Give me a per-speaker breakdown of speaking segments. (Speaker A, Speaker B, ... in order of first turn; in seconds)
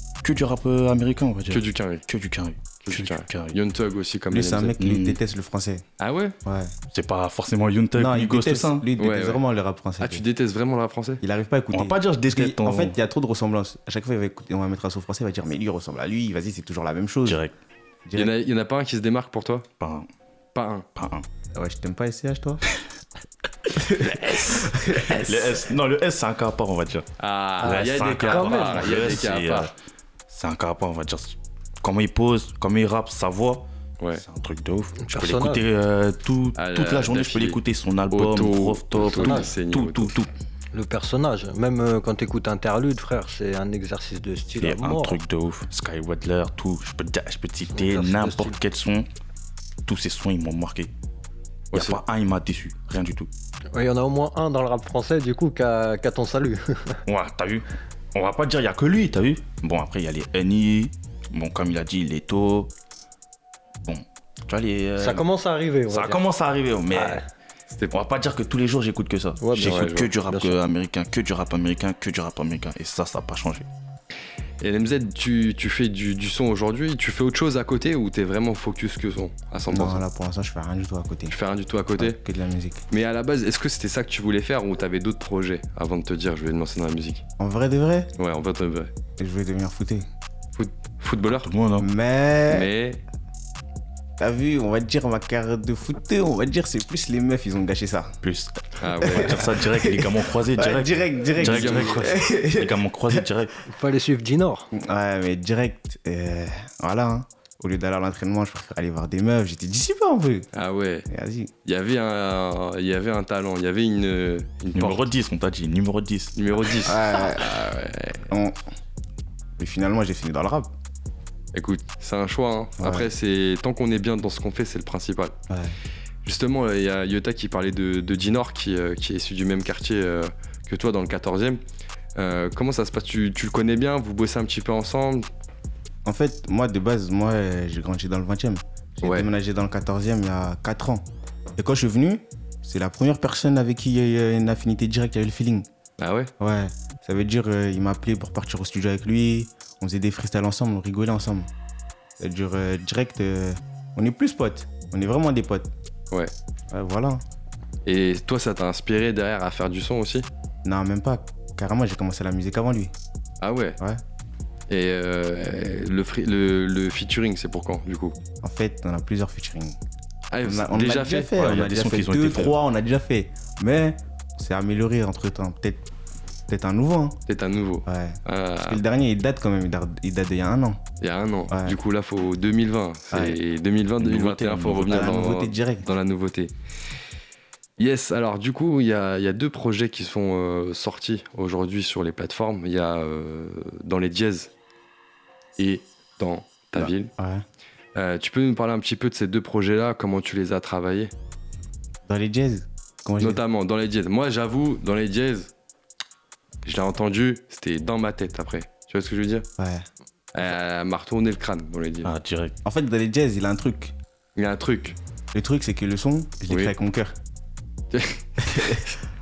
Speaker A: 0.2-3.6, 4.8-5.2, 6.9-8.9, 11.7-13.0, 17.3-17.5, 19.8-20.1, 21.0-21.2, 25.1-27.1, 27.6-29.7, 30.3-40.3, 44.6-49.1, 49.9-50.9, 51.7-53.3, 57.1-62.7, 63.8-65.3, 65.9-67.2, 67.9-73.7, 91.4-91.9, 98.2-103.5, 114.8-116.4, 171.4-172.6, 184.1-185.2, 212.0-212.5
Speaker B: 1.5-2.0, 2.9-4.7, 6.0-6.4, 9.0-9.4, 10.0-11.2, 18.1-19.7, 20.6-20.9, 27.2-29.7, 36.6-37.6, 38.1-40.2, 51.7-52.0, 67.7-68.0, 69.6-70.1, 74.6-80.0, 81.3-82.2, 82.9-87.2, 88.2-88.9, 90.6-91.5, 92.5-93.0, 98.8-99.4, 101.4-102.2, 110.5-111.1, 111.7-115.1, 116.4-118.2, 121.5-125.3, 126.2-131.6, 132.2-135.3, 139.0-139.3, 146.0-146.3, 157.8-160.3, 163.4-163.8, 164.7-168.2, 170.3-171.4, 177.3-178.8, 181.0-186.5, 187.8-194.5, 195.6-197.1, 197.9-201.1, 203.2-205.5, 206.7-209.5, 210.3-212.1, 214.4-215.0, 216.5-216.7, 217.9-218.8
Speaker C: 4.3-5.8, 6.4-6.7, 8.0-10.2, 11.2-17.4, 18.1-18.4, 21.6-22.6, 23.8-25.3, 79.7-81.4, 82.0-82.8, 87.4-88.1, 89.2-90.1, 91.8-92.7, 94.2-98.2, 99.0-103.3, 104.7-110.5, 111.1-111.5, 116.8-117.6, 118.3-118.6, 119.6-120.7, 122.8-123.1, 125.5-125.8, 136.1-141.1, 141.6-145.7, 146.4-151.5, 152.2-155.7, 156.7-157.2, 160.7-162.9, 168.4-169.8, 170.4-175.8, 176.5-177.2, 177.9-180.8, 181.5-181.8, 183.1-183.4, 184.6-185.9, 196.8-197.4, 202.1-203.4, 209.6-209.9, 212.6-213.9, 215.3-217.2, 218.4-218.8
Speaker D: 27.6-29.1, 35.1-35.6, 39.1-39.5, 40.7-45.2, 47.7-48.6, 53.7-57.0, 65.0-66.2, 66.9-67.2, 69.4-70.6, 103.7-104.7